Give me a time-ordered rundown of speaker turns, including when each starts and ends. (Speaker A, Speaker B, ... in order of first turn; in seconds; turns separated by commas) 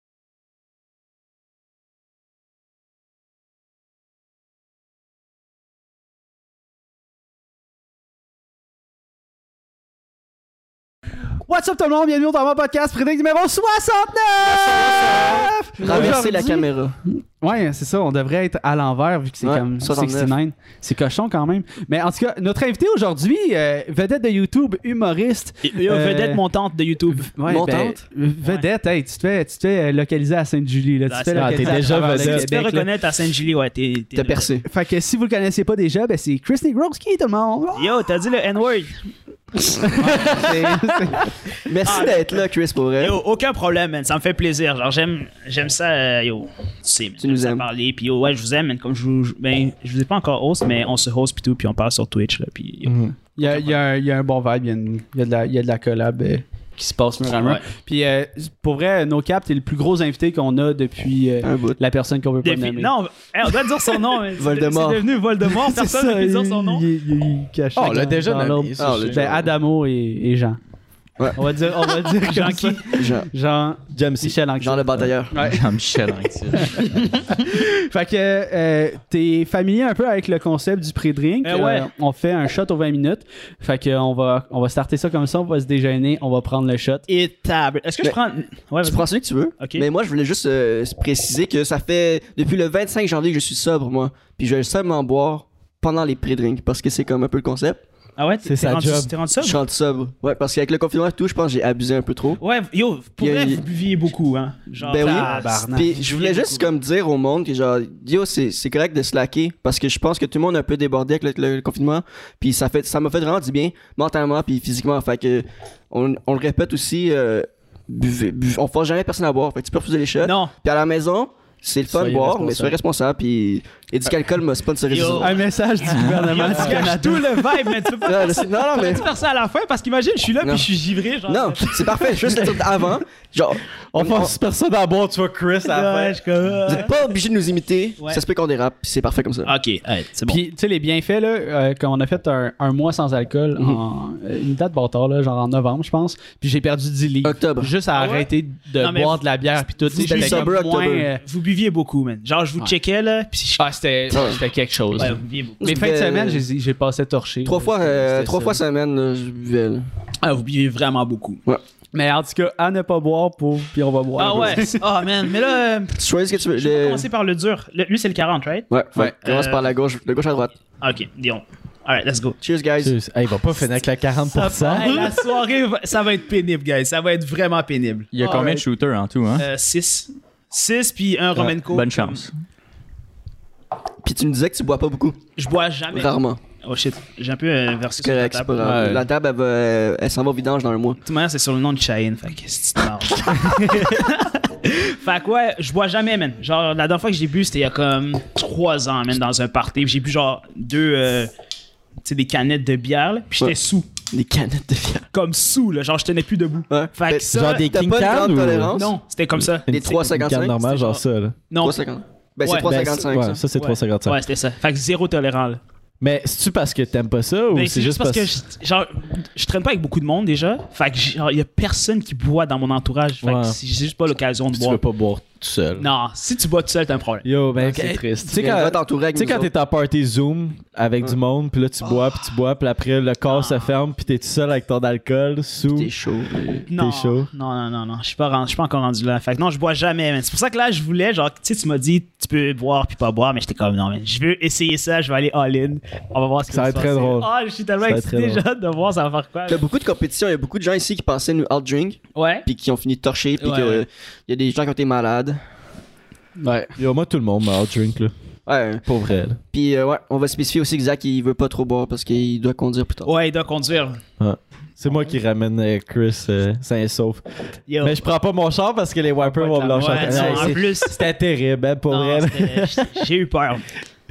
Speaker A: 11.5-16.7, Speaker B: 15.0-15.3, Speaker C: 15.8-16.9, Speaker B: 15.8-16.2, Speaker A: 17.4-26.4, Speaker C: 19.4-20.3, Speaker D: 25.6-27.3, Speaker A: 27.2-32.7, Speaker C: 27.4-28.0, Speaker D: 31.1-34.5, Speaker B: 31.4-32.8, Speaker C: 34.1-34.7, Speaker A: 34.6-37.9, Speaker D: 37.7-38.9, Speaker A: 39.8-41.3, Speaker D: 39.9-40.6, Speaker B: 40.2-40.5, Speaker C: 41.6-43.2, Speaker D: 41.8-42.4, Speaker D: 43.0-53.8, Speaker C: 47.2-47.7, Speaker B: 52.9-53.1, Speaker A: 53.4-62.9, Speaker D: 57.3-57.6, Speaker C: 61.4-61.8, Speaker D: 62.4-66.8, Speaker C: 64.3-65.1, Speaker A: 65.6-70.6, Speaker B: 67.8-69.2, Speaker C: 68.8-69.5, Speaker C: 71.2-71.5, Speaker A: 71.3-75.7, Speaker D: 72.2-73.0, Speaker C: 72.9-73.3, Speaker B: 73.9-74.4, Speaker C: 74.6-75.4, Speaker E: 75.4-76.9, Speaker A: 76.5-87.0, Speaker D: 81.4-81.9, Speaker D: 87.1-89.1, Speaker C: 88.8-97.8, Speaker D: 89.6-89.8, Speaker D: 98.2-99.6, Speaker B: 98.5-99.1, Speaker C: 99.4-102.4, Speaker D: 102.4-106.7, Speaker C: 103.2-103.6, Speaker C: 104.8-125.4, Speaker A: 104.9-105.9, Speaker D: 120.2-120.5, Speaker A: 121.9-122.8, Speaker D: 124.9-132.6, Speaker A: 125.2-127.7, Speaker E: 125.9-126.2, Speaker C: 128.0-129.1, Speaker C: 130.4-130.7, Speaker C: 131.3-134.3, Speaker B: 133.9-136.2, Speaker D: 135.7-136.9, Speaker C: 136.6-139.5, Speaker D: 139.5-140.4, Speaker A: 140.3-151.2, Speaker C: 147.2-147.7, Speaker D: 147.9-150.6, Speaker C: 150.0-151.1, Speaker D: 151.2-153.6, Speaker A: 153.6-158.6, Speaker C: 154.1-154.4, Speaker D: 155.0-155.6, Speaker C: 155.6-156.4, Speaker C: 157.4-159.9, Speaker D: 160.2-161.4, Speaker A: 161.9-164.8, Speaker D: 164.2-168.7, Speaker C: 166.0-167.1, Speaker C: 168.7-170.5, Speaker D: 169.2-169.6, Speaker D: 170.8-172.4, Speaker C: 172.4-172.9, Speaker B: 172.8-174.9, Speaker D: 174.3-178.6, Speaker A: 174.8-175.1, Speaker E: 178.1-179.5, Speaker D: 179.4-182.2, Speaker E: 181.3-182.3, Speaker C: 184.0-185.2, Speaker D: 185.4-188.6, Speaker C: 185.9-186.4, Speaker C: 188.0-191.0, Speaker E: 188.6-189.1, Speaker D: 191.1-201.3, Speaker D: 202.0-203.9, Speaker C: 204.1-205.1, Speaker D: 205.1-207.7, Speaker C: 206.7-209.0, Speaker B: 207.3-208.8, Speaker D: 208.7-209.9, Speaker B: 209.7-211.3, Speaker C: 209.7-210.6, Speaker D: 210.6-211.8, Speaker C: 211.6-213.4, Speaker D: 212.4-212.8, Speaker B: 212.6-214.2, Speaker D: 213.5-215.6, Speaker B: 216.0-218.3, Speaker D: 217.5-224.8, Speaker B: 223.2-223.6, Speaker B: 224.5-225.9, Speaker D: 225.8-227.3, Speaker B: 227.2-235.9, Speaker A: 227.6-228.3, Speaker C: 228.3-229.5, Speaker D: 233.2-233.7, Speaker C: 235.7-236.6, Speaker B: 236.6-237.3, Speaker D: 236.7-249.6, Speaker B: 246.5-247.3, Speaker B: 247.8-248.4, Speaker C: 249.5-255.4, Speaker D: 252.2-252.4, Speaker D: 253.4-253.8, Speaker A: 256.4-256.8, Speaker B: 256.8-258.1, Speaker C: 258.4-258.8, Speaker B: 258.8-259.4, Speaker C: 259.5-263.1, Speaker D: 263.0-264.0, Speaker B: 264.2-267.2, Speaker D: 267.7-267.9, Speaker B: 267.8-273.0, Speaker D: 269.4-271.0, Speaker A: 269.4-270.7, Speaker D: 271.9-273.6